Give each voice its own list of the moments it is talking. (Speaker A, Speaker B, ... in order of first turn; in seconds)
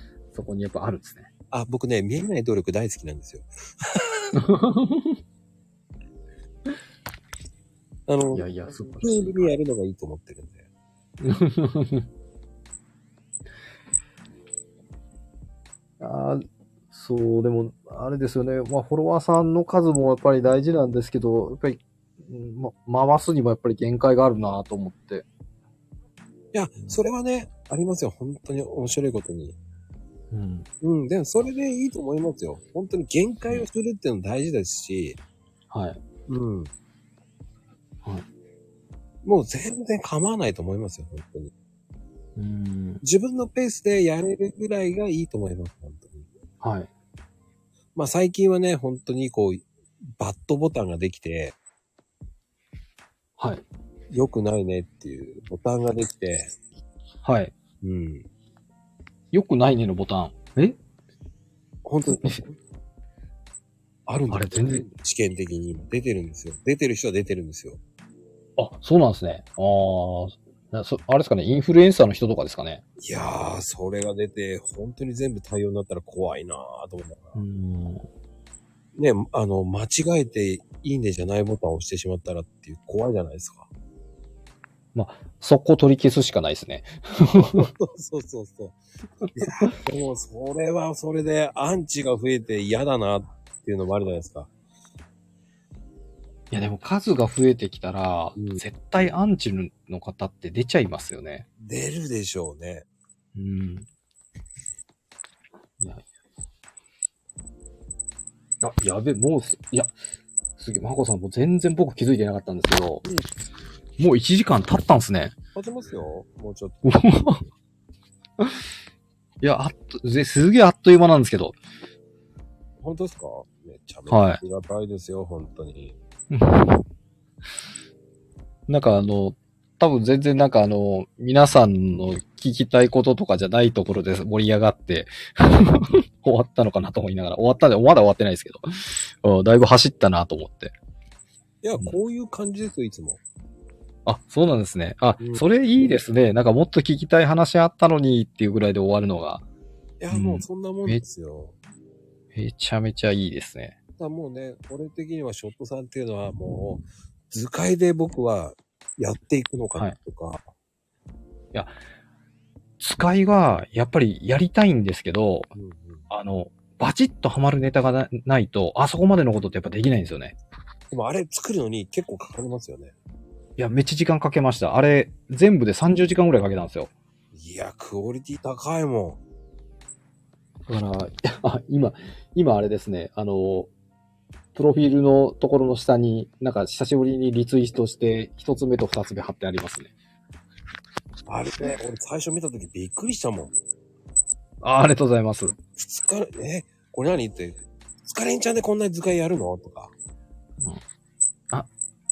Speaker A: 0.3-1.3, 4.3-5.2, 8.3-9.5, 11.2-12.1, 16.0-25.2, 30.3-30.6, 35.7-36.0, 42.4-43.0, 46.6-46.9, 53.4-53.6, 57.2-57.5, 59.3-60.8, 64.3-64.8, 68.6-72.8, 77.3-78.0, 84.9-87.7, 96.5-101.5, 103.3-103.9, 105.8-106.1, 108.6-109.9, 110.6-113.0, 114.0-115.3, 116.8-117.4, 119.4-121.6, 124.1-124.4, 126.3-126.8, 128.7-140.7, 144.1-149.4, 150.1-151.0, 152.3-153.8, 162.8-165.5, 166.1-170.3, 173.6-176.9, 180.7-183.7, 184.5-189.9, 194.6-195.6
Speaker B: 1.5-4.0, 8.1-10.7, 26.5-29.6, 30.8-35.2, 36.3-36.7, 39.2-41.5, 43.0-46.3, 47.9-51.5, 54.1-56.6, 57.8-58.3, 61.8-62.5, 64.1-67.8, 73.0-77.4, 78.9-83.7, 87.3-88.8, 89.3-94.5, 98.3-98.6, 101.6-102.9, 113.0-113.3, 115.5-116.9, 122.8-126.0, 141.6-143.2, 145.2-145.4, 150.0-151.5, 154.0-160.4, 165.5-166.1, 170.9-172.9, 177.3-179.2, 191.3-193.5, 195.8-199.9